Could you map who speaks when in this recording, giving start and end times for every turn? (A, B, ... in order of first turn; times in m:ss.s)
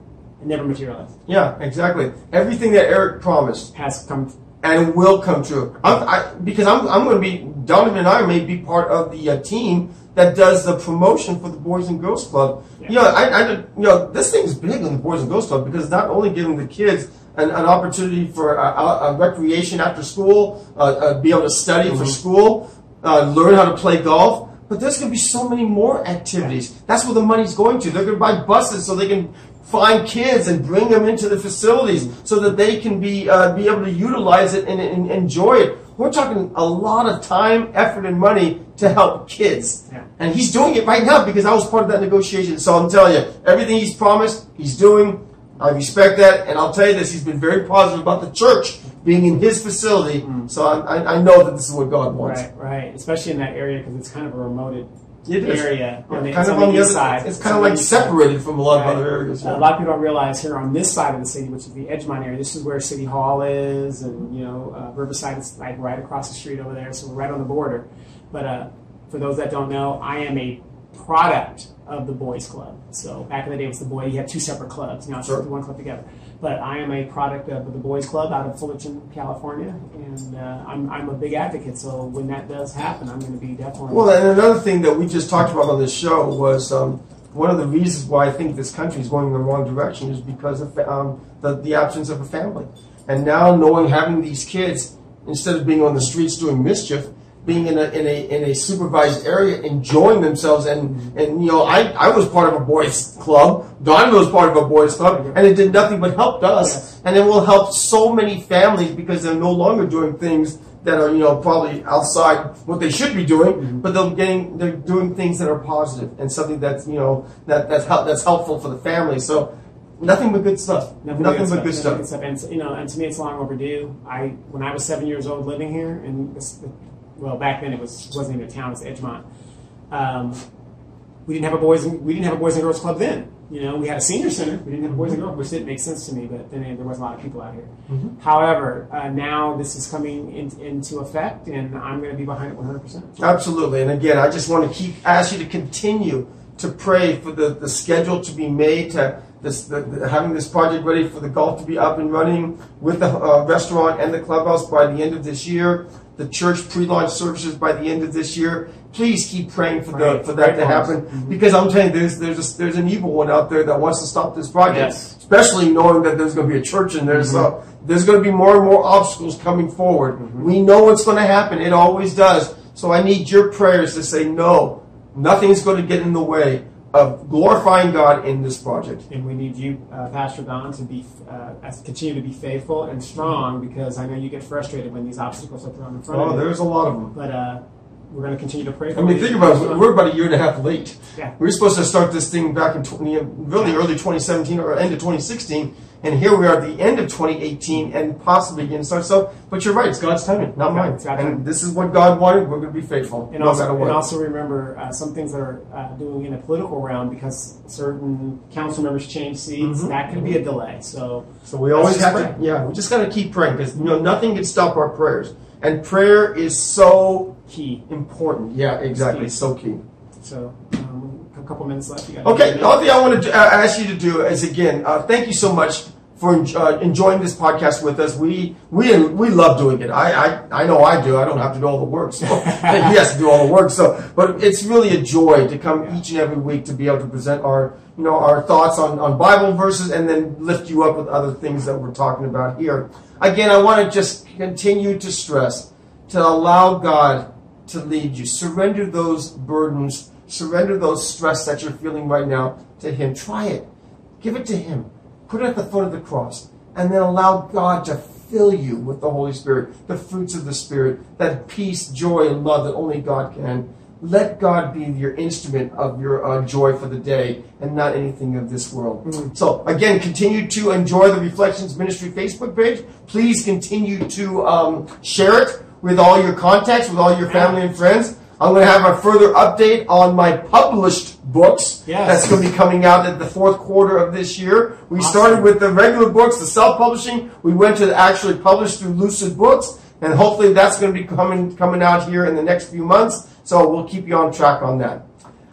0:00.4-0:01.1 A
0:01.3-0:03.7 B
0:03.7-0:04.4 A
0:04.6-0:52.4 B
0:50.2-0:50.5 A
0:52.2-0:54.9 A
0:55.3-0:59.7 B
0:55.4-0:58.2 A
0:58.7-1:24.1 A
1:23.9-2:02.0 B
1:44.9-1:45.8 A
1:53.6-1:53.8 A
2:01.0-2:09.2 A
2:09.9-2:10.4 A
2:11.3-2:23.2 A
2:23.2-2:59.0 B
2:39.9-2:41.4 A
2:44.7-2:45.1 A
2:47.1-2:47.5 A
2:50.2-2:50.5 A
2:59.1-3:06.5 A
3:06.1-3:07.1 B
3:07.1-3:09.8 A
3:08.9-3:24.0 B
3:20.6-3:21.4 A
3:23.3-3:32.4 A
3:29.6-3:30.4 B
3:31.5-3:39.8 B
3:37.5-3:37.8 A
3:38.9-3:39.3 A
3:40.2-3:42.8 A
3:42.2-4:13.7 B
3:52.4-3:52.7 A
4:14.2-4:55.0 B
4:29.1-4:29.3 A
4:37.3-4:37.6 A
4:41.9-4:42.3 A
4:45.0-4:45.5 A